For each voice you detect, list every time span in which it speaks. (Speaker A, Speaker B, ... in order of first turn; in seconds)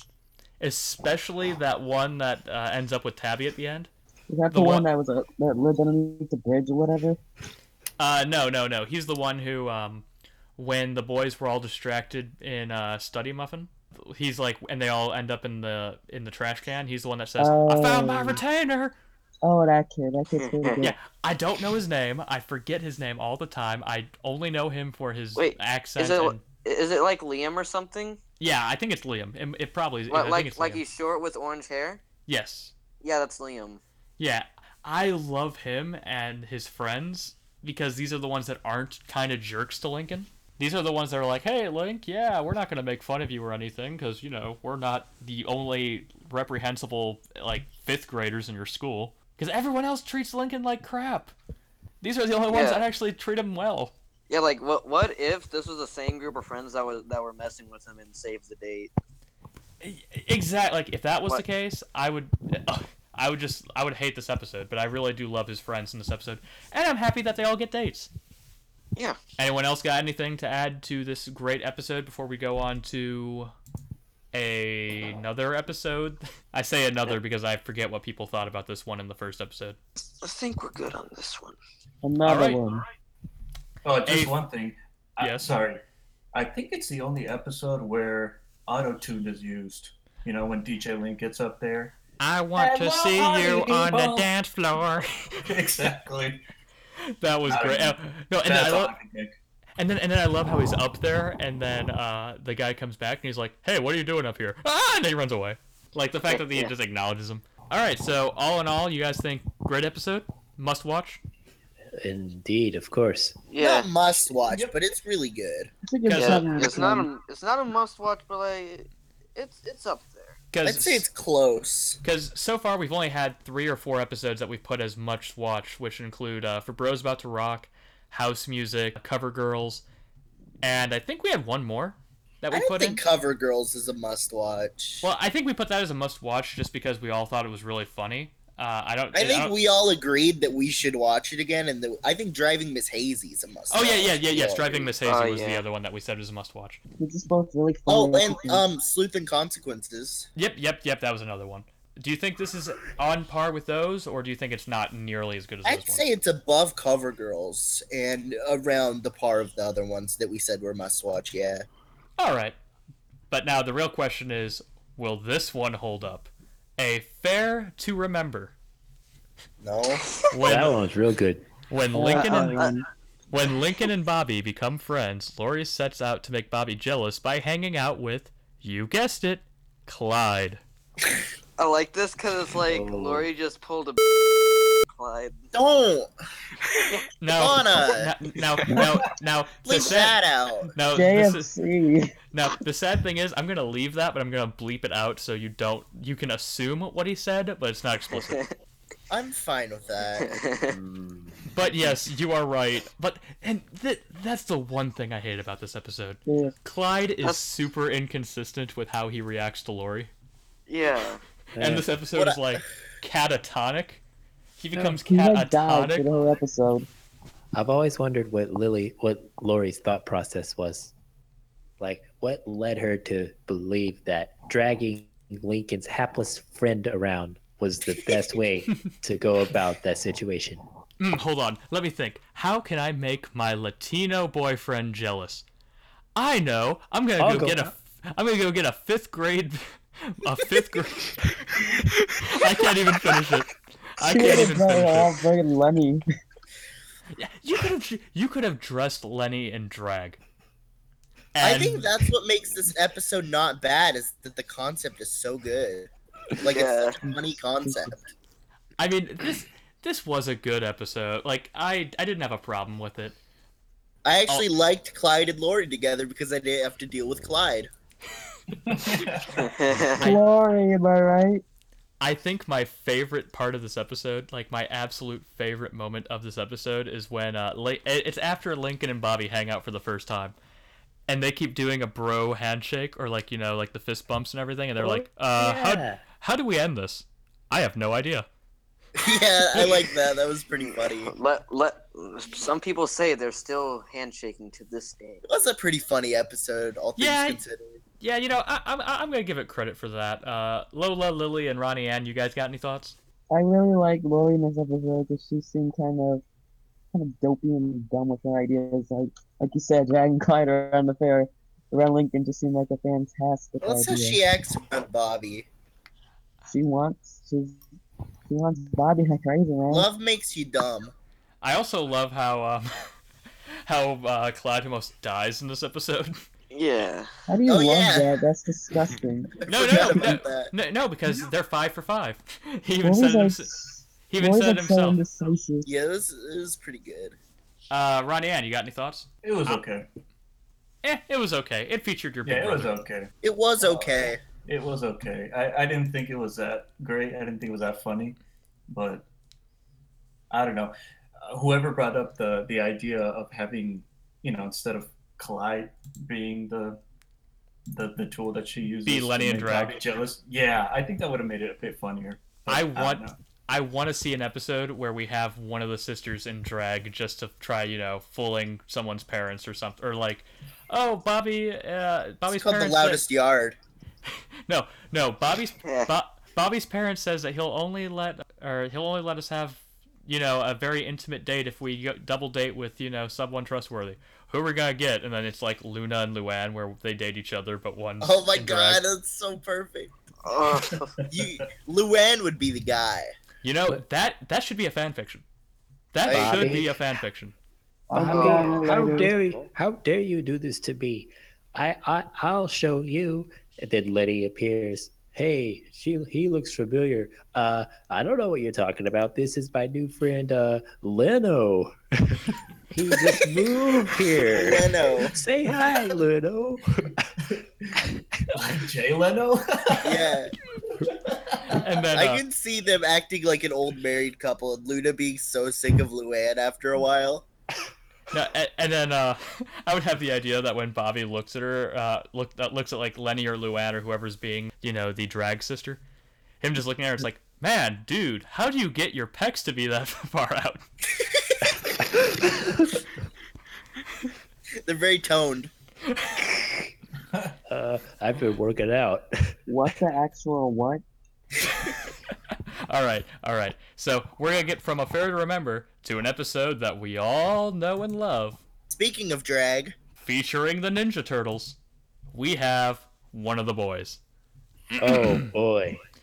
Speaker A: 0.6-3.9, 4.5-4.9, 8.0-10.1, 10.6-18.9, 20.8-26.4, 28.4-30.8, 32.2-32.7, 34.2-51.3, 52.0-53.9, 59.8-68.1, 69.4-73.5, 74.3-79.8, 82.2-82.6, 84.0-84.4, 85.2-85.5, 92.2-95.5, 97.2-98.9, 99.8-111.2, 116.0-116.5, 120.5-121.1, 122.0-129.8, 130.6-133.0, 135.0-139.5, 143.7-146.8, 150.3-156.1, 162.2-162.6, 163.3-168.5, 170.3-170.8, 171.7-172.6, 173.3-180.6, 187.2-190.2, 190.7-191.5, 192.3-198.4, 201.5-210.1, 211.6-214.0, 214.6-216.1, 231.0-235.4, 236.2-241.2, 242.2-245.1, 247.1-250.2, 251.3-251.9, 258.8-263.1, 270.0-270.2, 272.0-280.3, 281.1-288.2, 297.0-297.4, 298.0-302.9, 321.4-322.9, 323.6-326.2, 329.5-333.5, 334.1-335.0, 337.7-339.6, 340.8-342.7, 358.8-359.8, 362.5-373.0, 374.5-388.8, 393.4-395.2, 395.9-397.3, 421.5-422.2, 428.1-435.8, 436.4-440.6, 452.7-458.4, 460.0-461.6, 462.1-464.0
Speaker B: 4.3-7.2, 17.4-18.4, 19.4-20.9, 82.0-82.8, 115.8-117.1, 147.0-148.7, 171.9-172.8, 190.9-192.1, 206.3-206.5, 214.7-216.9, 244.0-246.0, 270.0-271.4, 303.3-306.2, 306.9-314.2, 316.4-317.6, 318.3-319.9, 327.3-329.3, 332.8-335.7, 397.9-399.2, 449.5-450.8
Speaker C: 20.4-20.8, 25.4-28.2, 30.1-32.0, 33.0-33.8, 52.5-52.8, 54.3-58.9, 80.2-81.6, 106.3-106.7, 113.5-113.9, 116.1-120.4, 145.1-145.6, 181.6-184.0, 184.8-185.5, 186.7-187.1, 198.1-198.5, 200.2-200.8, 210.7-211.2, 256.5-257.0, 269.4-270.1, 290.6-295.2, 326.5-327.1, 375.6-375.9, 390.2-390.9, 398.1-398.8
Speaker D: 83.8-85.8, 86.3-91.9, 92.5-94.3, 95.5-96.4, 97.4-99.3, 114.4-114.7, 268.5-269.6, 339.2-339.9, 342.2-348.2, 348.7-349.1, 350.3-356.8, 357.7-363.2, 417.3-417.8, 418.3-420.2, 420.8-421.6
Speaker E: 112.0-113.4, 170.4-171.5, 182.7-183.3, 200.7-201.4, 211.6-211.9, 217.5-220.9, 221.8-230.6, 237.2-237.7, 284.8-286.0, 396.0-396.8, 397.9-417.1, 441.8-442.5, 447.5-449.4, 464.8-465.8
Speaker F: 113.6-115.7, 120.6-122.0, 132.5-135.1, 139.1-144.9, 147.9-150.3, 155.6-161.7, 169.6-170.0, 185.5-186.1, 187.3-188.1, 189.7-190.7, 199.1-200.3, 212.1-212.6, 251.4-258.0, 264.0-267.7, 289.0-291.1, 295.2-297.8, 313.6-315.5, 319.7-320.9, 327.5-328.2, 329.4-330.5, 335.6-337.1, 343.2-344.2, 372.3-373.6, 388.0-389.9, 391.1-393.1, 396.0-396.6, 414.2-415.1, 419.8-420.3, 421.9-427.3, 441.0-441.3, 444.6-445.5, 458.7-459.7